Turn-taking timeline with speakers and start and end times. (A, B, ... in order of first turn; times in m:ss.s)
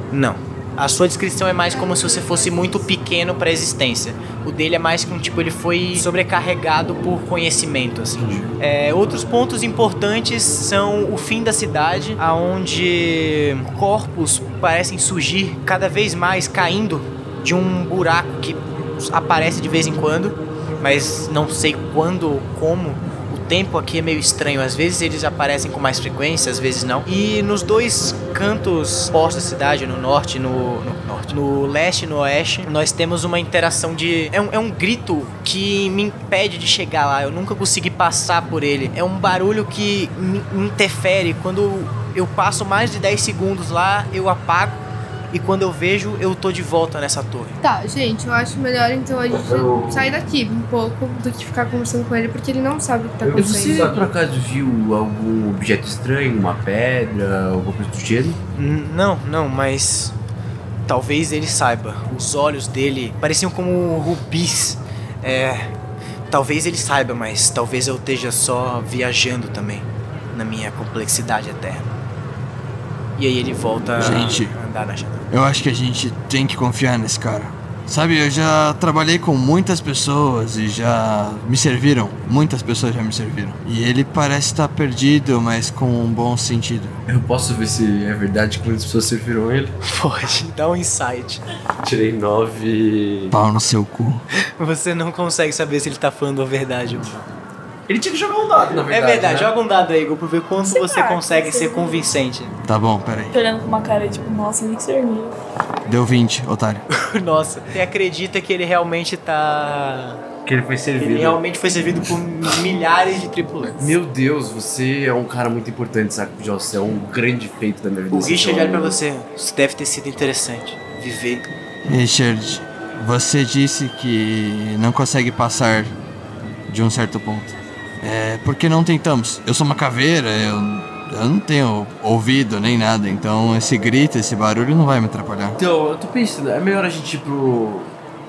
0:00.1-0:47.6 A
0:01.6-0:02.9 B
0:08.2-0:08.5 C
0:47.6-0:54.1 B
0:49.4-0:50.1 C
0:53.2-0:58.4 C
0:58.6-1:00.1 A
1:00.9-1:05.7 A
1:06.3-1:11.9 A
1:13.2-1:15.3 A
1:14.0-1:14.6 D
1:15.3-1:27.0 D
1:27.1-1:29.8 C
1:29.8-1:31.4 A
1:31.8-1:33.4 C
1:33.3-1:34.2 D
1:34.6-1:37.2 A
1:37.9-1:39.5 C
1:38.9-1:42.5 A
1:40.6-1:42.1 E
1:42.6-1:43.4 D
1:43.3-1:45.4 E
1:45.9-1:46.8 D
1:46.9-1:50.2 A
1:50.4-1:51.4 C
1:51.0-1:53.8 A
1:53.8-1:59.0 C
1:58.1-2:01.5 A
2:01.8-2:06.0 D
2:06.7-2:15.6 D
2:15.6-2:18.0 C